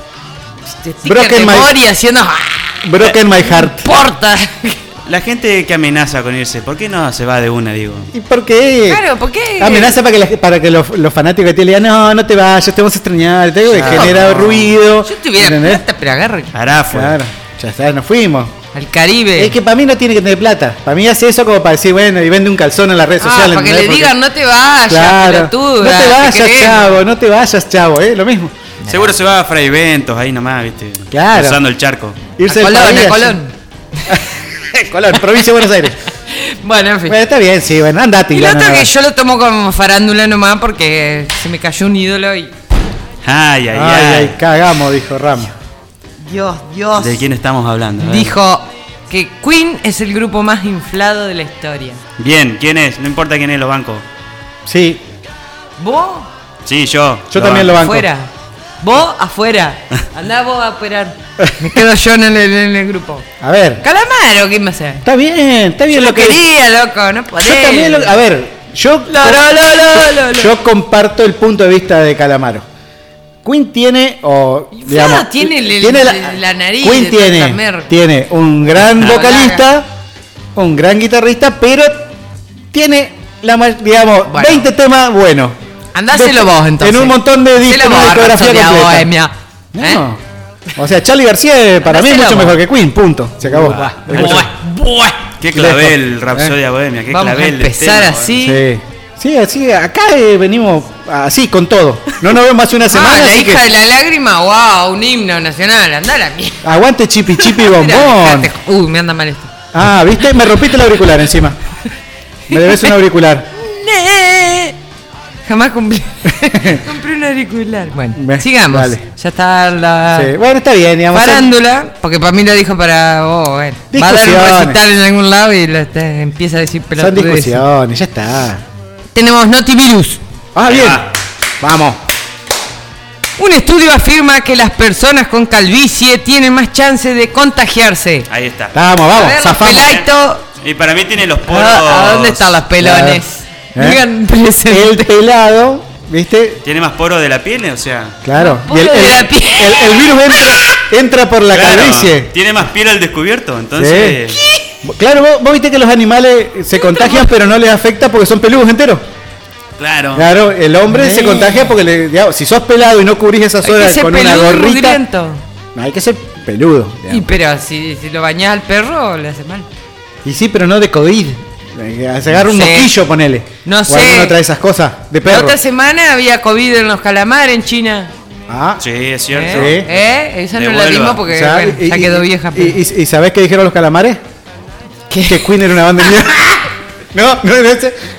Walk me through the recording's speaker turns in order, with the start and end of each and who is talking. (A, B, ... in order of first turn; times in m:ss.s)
0:00.7-0:04.8 A
0:01.0-0:01.8 B
0:02.8-0:03.9 B
0:05.1-0:08.1 C
0:08.1-0:09.0 B
0:08.9-0:10.0 A
0:09.6-0:15.8 B
0:13.7-0:14.7 C
0:15.0-0:16.5 A
0:16.5-0:17.2 C
0:16.9-0:18.6 B
0:18.7-0:19.6 A
0:19.4-0:24.2 B
0:23.2-0:27.0 A
0:24.9-0:28.5 B
0:28.8-0:29.1 A
0:28.9-0:32.2 C
0:31.1-0:31.6 B
0:32.4-0:33.4 B
0:32.5-0:33.5 A
0:34.8-0:36.0 B
0:36.3-0:37.2 A
0:37.1-0:38.9 B
0:38.3-0:42.5 A
0:43.2-0:44.4 C
0:43.7-0:45.6 B
0:46.2-0:47.2 A
0:47.0-0:48.4 C
0:48.0-0:52.0 A
0:52.2-0:54.1 C
0:54.7-0:55.0 B
0:55.8-0:56.3 A
0:56.7-0:57.8 C
0:57.3-0:58.1 B
0:57.8-1:03.3 A
1:03.4-1:03.8 B
1:03.8-1:05.0 A
1:05.0-1:06.4 B
1:05.9-1:08.2 A
1:07.4-1:12.6 B
1:09.1-1:10.5 A
1:13.4-1:19.9 B
1:14.7-1:17.9 A
1:18.9-1:19.6 A
1:20.6-1:22.1 B
1:22.7-1:25.6 B
1:24.3-1:24.7 A
1:26.0-1:30.0 A
1:26.1-1:29.1 B
1:29.8-1:30.2 B
1:30.8-1:34.5 B
1:31.8-1:32.6 A
1:33.4-1:35.2 A
1:33.5-1:34.6 C
1:35.2-1:38.4 C
1:35.5-1:36.6 B
1:37.1-1:38.6 A
1:38.4-1:43.7 B
1:42.9-1:46.6 A
1:46.6-1:48.5 B
1:47.4-1:49.5 A
1:49.7-1:51.6 B
1:52.5-1:53.5 B
1:52.5-1:52.9 A
1:53.6-1:54.8 A
1:55.4-2:00.3 A
1:56.5-1:56.8 B
1:58.2-1:59.0 B
2:00.1-2:01.5 B
2:01.1-2:07.6 A
2:03.9-2:04.8 B
2:07.0-2:08.6 B
2:09.1-2:10.2 A
2:10.6-2:11.1 B
2:10.6-2:11.1 C
2:11.6-2:12.0 B
2:13.4-2:18.3 A
2:18.3-2:18.8 C
2:18.7-2:20.0 B
2:19.1-2:20.4 A
2:20.6-2:22.6 C
2:21.5-2:25.1 A
2:22.8-2:23.2 B
2:23.8-2:24.1 B
2:24.7-2:26.6 B
2:26.6-2:28.2 C
2:28.2-2:32.3 B
2:28.4-2:30.8 A
2:31.5-2:34.4 C
2:33.8-2:34.2 B
2:34.8-2:39.0 B
2:36.8-2:37.3 A
2:39.8-2:40.3 C
2:40.2-2:45.0 B
2:40.9-2:41.7 A
2:43.6-2:45.4 A
2:45.8-2:47.3 B
2:47.1-2:49.7 A
2:50.2-2:55.6 B
2:52.4-2:52.9 A
2:53.6-2:54.4 A
2:55.2-2:58.1 A
2:58.5-2:58.8 B
2:58.8-2:59.9 C
2:59.3-3:02.8 A
2:59.5-2:59.9 B
3:00.5-3:01.2 C
3:01.3-3:04.2 B
3:05.1-3:05.5 A
3:05.3-3:06.4 B
3:07.1-3:08.0 B